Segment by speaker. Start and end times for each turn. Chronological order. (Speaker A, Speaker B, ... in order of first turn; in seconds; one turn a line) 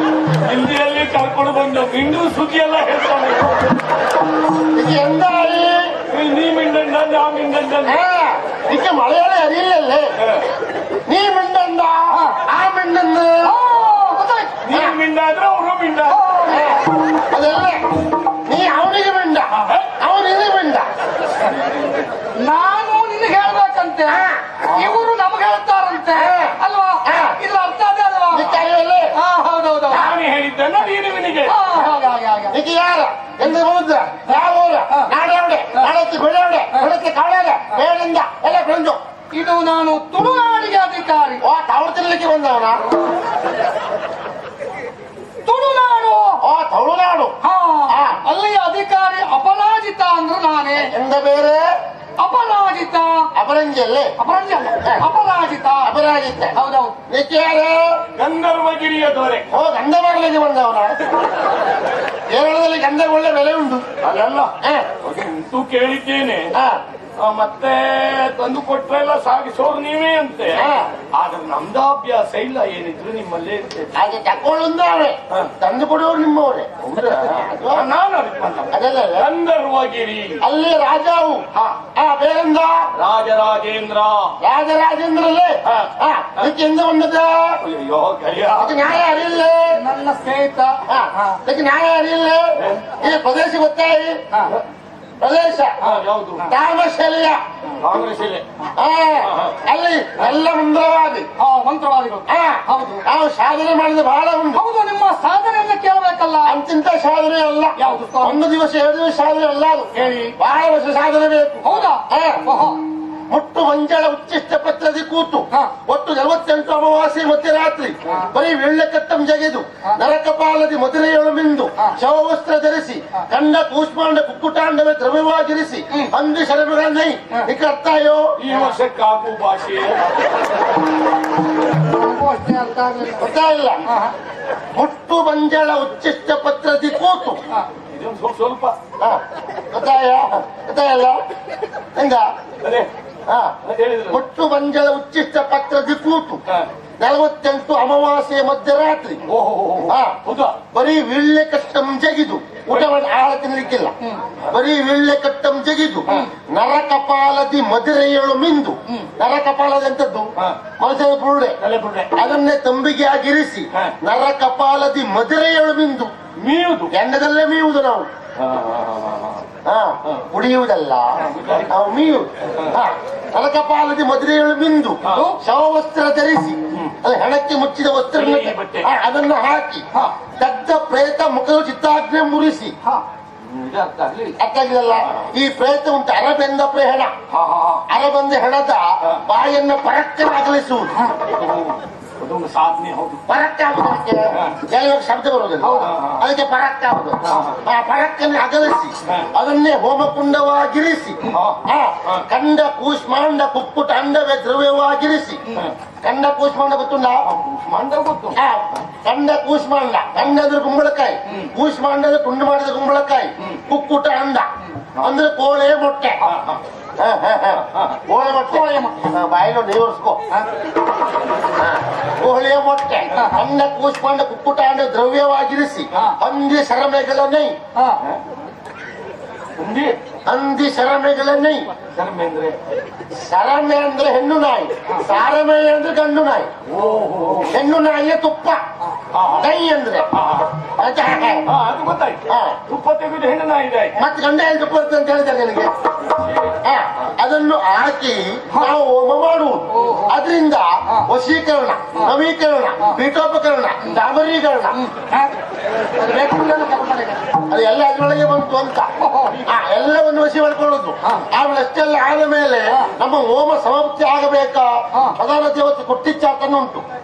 Speaker A: 0.3-3.6
Speaker B: 4.7-5.9
Speaker A: 6.1-8.0
Speaker B: 7.8-10.1
Speaker A: 10.2-10.4
Speaker B: 11.1-13.6
Speaker C: 12.1-12.4
Speaker C: 13.4-14.6
Speaker A: 14.6-16.3
Speaker C: 16.1-16.8
Speaker B: 16.5-20.9
Speaker C: 22.4-28.6
Speaker B: 24.1-24.6
Speaker B: 26.1-27.4
Speaker B: 28.3-29.1
Speaker C: 29.1-30.1
Speaker A: 29.9-31.7
Speaker C: 31.4-32.6
Speaker B: 32.5-39.0
Speaker C: 39.3-41.4
Speaker B: 41.4-42.8
Speaker C: 45.5-46.4
Speaker B: 46.4-47.4
Speaker C: 47.4-50.9
Speaker B: 47.9-48.2
Speaker B: 50.8-51.6
Speaker C: 52.2-53.3
Speaker B: 53.3-54.1
Speaker C: 54.2-55.9
Speaker B: 55.8-56.5
Speaker C: 56.5-57.0
Speaker B: 57.1-58.0
Speaker A: 58.1-59.5
Speaker B: 59.5-61.0
Speaker B: 62.3-63.9
Speaker A: 64.0-66.5
Speaker B: 64.6-64.9
Speaker A: 67.2-73.9
Speaker B: 70.5-70.9
Speaker B: 73.9-77.9
Speaker A: 76.8-80.4
Speaker B: 78.7-79.3
Speaker B: 80.4-82.9
Speaker A: 83.0-84.3
Speaker B: 84.4-87.6
Speaker A: 87.6-88.9
Speaker B: 88.5-89.8
Speaker C: 89.7-91.4
Speaker B: 90.9-94.2
Speaker A: 92.6-93.0
Speaker B: 95.2-95.9
Speaker A: 95.8-96.5
Speaker B: 96.5-97.4
Speaker A: 97.8-98.4
Speaker B: 98.7-101.3
Speaker A: 99.2-99.5
Speaker C: 101.4-103.0
Speaker B: 102.3-104.6
Speaker C: 104.5-106.5
Speaker B: 106.4-112.4
Speaker C: 107.8-108.4
Speaker C: 109.9-110.3
Speaker C: 111.6-112.8
Speaker B: 113.3-128.3
Speaker A: 128.4-130.1
Speaker C: 131.8-133.3
Speaker B: 133.2-133.8
Speaker C: 133.8-134.1
Speaker B: 134.7-137.4
Speaker A: 137.9-138.8
Speaker B: 139.0-141.2
Speaker B: 141.9-142.3
Speaker A: 142.6-142.9
Speaker B: 143.3-143.6
Speaker A: 143.7-144.2
Speaker B: 144.1-146.4
Speaker B: 147.0-149.2
Speaker A: 149.2-150.6
Speaker B: 149.8-150.2
Speaker B: 150.7-153.9
Speaker B: 154.5-161.6
Speaker A: 161.6-162.2
Speaker B: 162.1-166.1
Speaker A: 166.4-166.9
Speaker B: 166.9-168.1
Speaker A: 168.4-169.4
Speaker B: 169.6-179.8
Speaker A: 171.2-171.7
Speaker C: 175.1-175.4
Speaker A: 178.1-178.9
Speaker B: 180.4-182.7
Speaker A: 183.4-184.4
Speaker B: 184.4-187.1
Speaker A: 187.3-187.8
Speaker B: 187.9-190.9
Speaker A: 191.2-193.2
Speaker B: 193.3-205.4
Speaker A: 194.3-194.6
Speaker C: 195.6-195.9
Speaker A: 195.8-196.2
Speaker A: 197.2-197.6
Speaker A: 201.3-202.2
Speaker B: 206.0-207.2
Speaker A: 207.2-208.4
Speaker B: 208.3-216.2
Speaker A: 216.2-216.6
Speaker B: 217.0-220.2
Speaker A: 217.7-218.0
Speaker C: 218.3-219.0
Speaker B: 221.6-227.5
Speaker A: 229.6-229.9
Speaker B: 230.2-231.6
Speaker A: 231.9-232.6
Speaker B: 233.1-236.5
Speaker A: 236.7-237.6
Speaker B: 237.5-238.6
Speaker A: 239.1-239.5
Speaker B: 239.4-240.1
Speaker A: 240.1-240.5
Speaker B: 240.8-241.4
Speaker A: 241.4-244.0
Speaker B: 242.3-242.6
Speaker B: 243.9-245.7
Speaker A: 246.0-246.6
Speaker B: 246.6-254.8
Speaker C: 249.7-250.2
Speaker C: 254.7-255.3
Speaker C: 256.0-257.2
Speaker B: 257.5-258.9
Speaker C: 259.0-259.4
Speaker B: 259.4-266.8